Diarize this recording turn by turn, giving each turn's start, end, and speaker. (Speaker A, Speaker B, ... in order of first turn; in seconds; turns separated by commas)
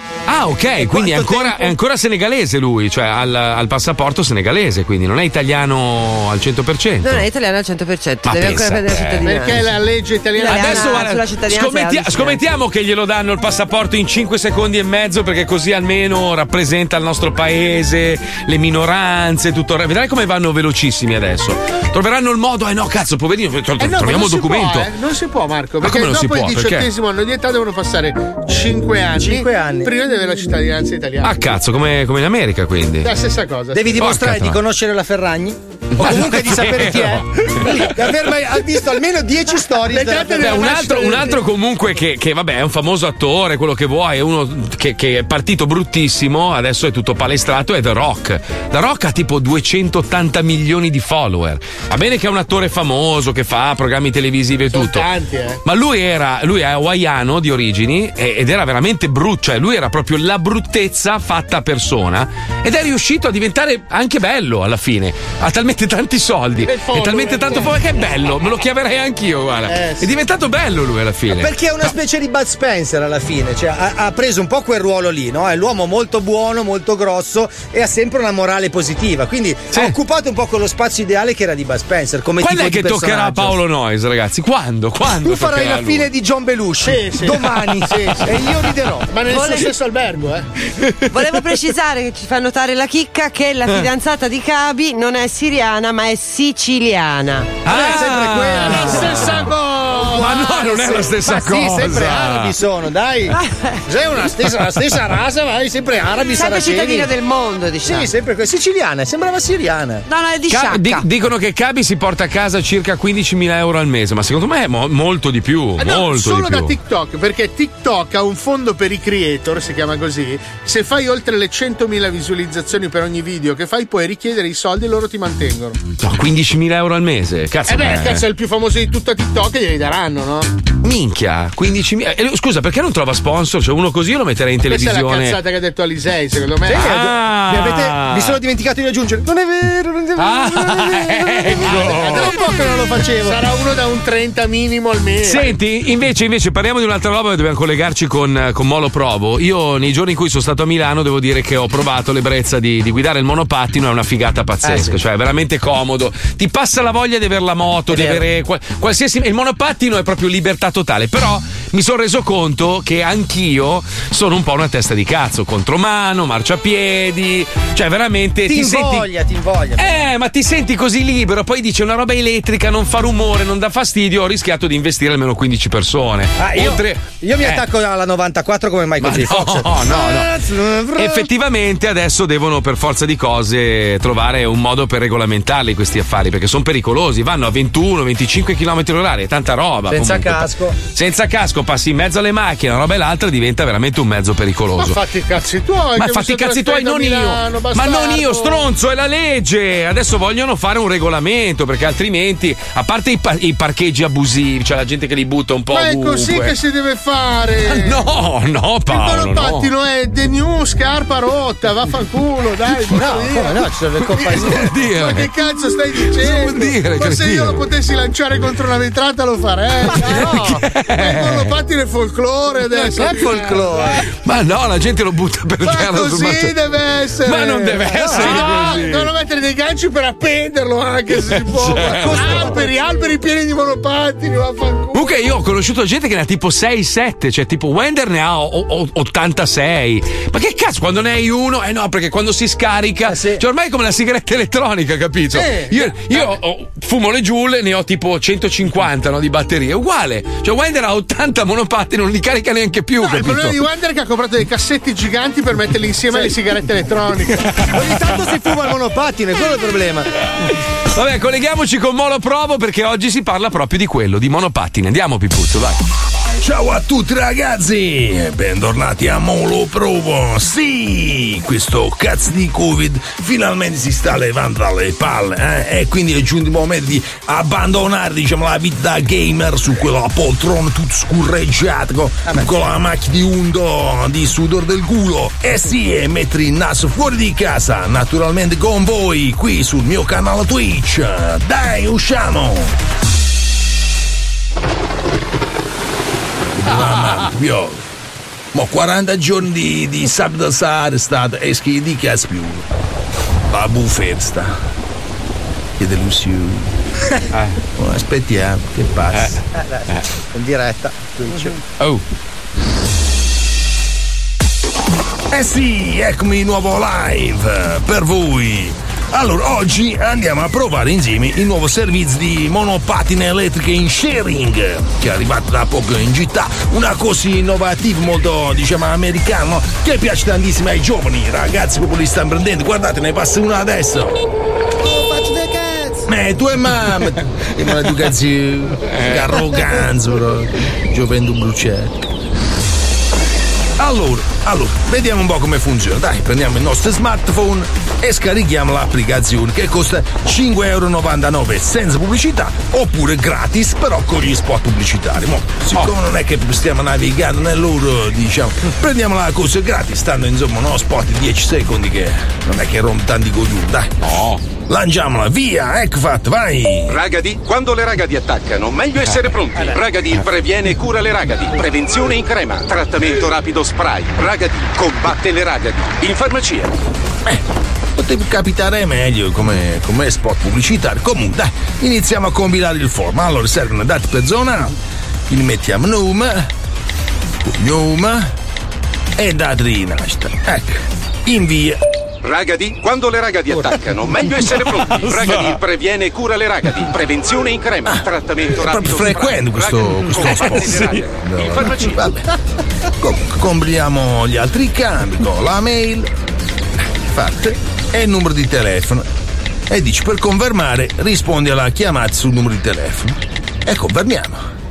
Speaker A: 0.3-7.2, Speaker B: 0.8-1.7, Speaker C: 7.0-9.7, Speaker A: 8.2-9.2, Speaker D: 9.2-11.0, Speaker C: 10.3-12.4, Speaker A: 10.5-24.9, Speaker D: 23.8-31.4, Speaker A: 25.8-26.9, Speaker B: 29.1-29.9, Speaker A: 31.2-33.1, Speaker D: 33.0-34.0, Speaker B: 33.7-40.7, Speaker A: 34.0-34.6, Speaker A: 36.0-37.9, Speaker D: 39.9-41.4, Speaker A: 40.4-55.1, Speaker D: 54.7-55.6, Speaker A: 55.6-71.9, Speaker D: 66.7-67.8, Speaker D: 69.7-70.1, Speaker B: 71.3-83.6, Speaker A: 82.4-86.1, Speaker B: 85.1-89.5, Speaker D: 86.8-88.3, Speaker D: 89.1-90.5, Speaker C: 89.3-89.6, Speaker C: 91.1-97.6, Speaker A: 97.6-99.5, Speaker B: 97.7-99.3, Speaker D: 98.5-100.4, Speaker A: 100.0-102.5, Speaker B: 100.3-103.3, Speaker B: 103.9-107.1, Speaker C: 106.3-108.1, Speaker B: 107.8-110.0, Speaker C: 110.1-111.0, Speaker A: 110.5-116.7, Speaker D: 115.8-125.8, Speaker A: 126.0-128.2, Speaker D: 127.7-130.5, Speaker A: 130.8-135.4, Speaker D: 134.7-136.9, Speaker B: 136.7-143.4, Speaker A: 136.7-138.4, Speaker A: 140.2-142.3, Speaker D: 141.7-142.4, Speaker D: 143.2-145.6, Speaker A: 145.2-169.1, Speaker B: 154.6-155.0, Speaker B: 157.9-158.2, Speaker B: 168.5-170.0, Speaker A: 169.8-177.6, Speaker B: 176.4-181.3, Speaker A: 179.0-195.0, Speaker B: 189.9-190.8, Speaker D: 194.8-198.7, Speaker A: 196.0-206.6, Speaker D: 205.7-208.0, Speaker A: 207.7-209.7, Speaker D: 208.9-213.6, Speaker B: 212.9-214.7, Speaker A: 214.1-215.3, Speaker D: 214.2-223.7, Speaker A: 215.9-217.6, Speaker A: 219.9-221.5, Speaker B: 219.9-220.6, Speaker B: 222.7-224.1, Speaker A: 224.1-226.6, Speaker D: 225.6-235.2, Speaker A: 227.2-229.1, Speaker B: 227.9-228.5, Speaker A: 231.1-232.5, Speaker B: 231.8-232.7, Speaker A: 234.9-253.6, Speaker B: 243.0-243.4, Speaker D: 253.0-257.5, Speaker B: 257.6-260.1, Speaker A: 260.9-265.8, Speaker E: 266.4-292.7, Speaker B: 282.3-282.7, Speaker E: 296.6-297.8, Speaker E: 298.5-302.7, Speaker E: 303.5-304.5, Speaker E: 305.8-306.7, Speaker A: 307.3-307.6, Speaker E: 307.8-309.4, Speaker A: 309.1-310.0, Speaker B: 309.5-311.6, Speaker E: 315.3-334.2, Speaker E: 336.0-342.0, Speaker A: 338.9-339.3, Speaker E: 343.8-363.9, Speaker A: 364.0-364.4, Speaker E: 364.7-366.9, Speaker F: 366.9-376.8, Speaker E: 377.9-384.7, Speaker E: 385.3-386.5, Speaker E: 387.4-388.3, Speaker E: 389.2-391.8, Speaker F: 392.2-402.0, Speaker A: 394.9-395.6, Speaker E: 397.8-402.3, Speaker A: 400.1-401.1, Speaker E: 403.0-406.1, Speaker E: 407.0-409.1, Speaker E: 409.7-414.4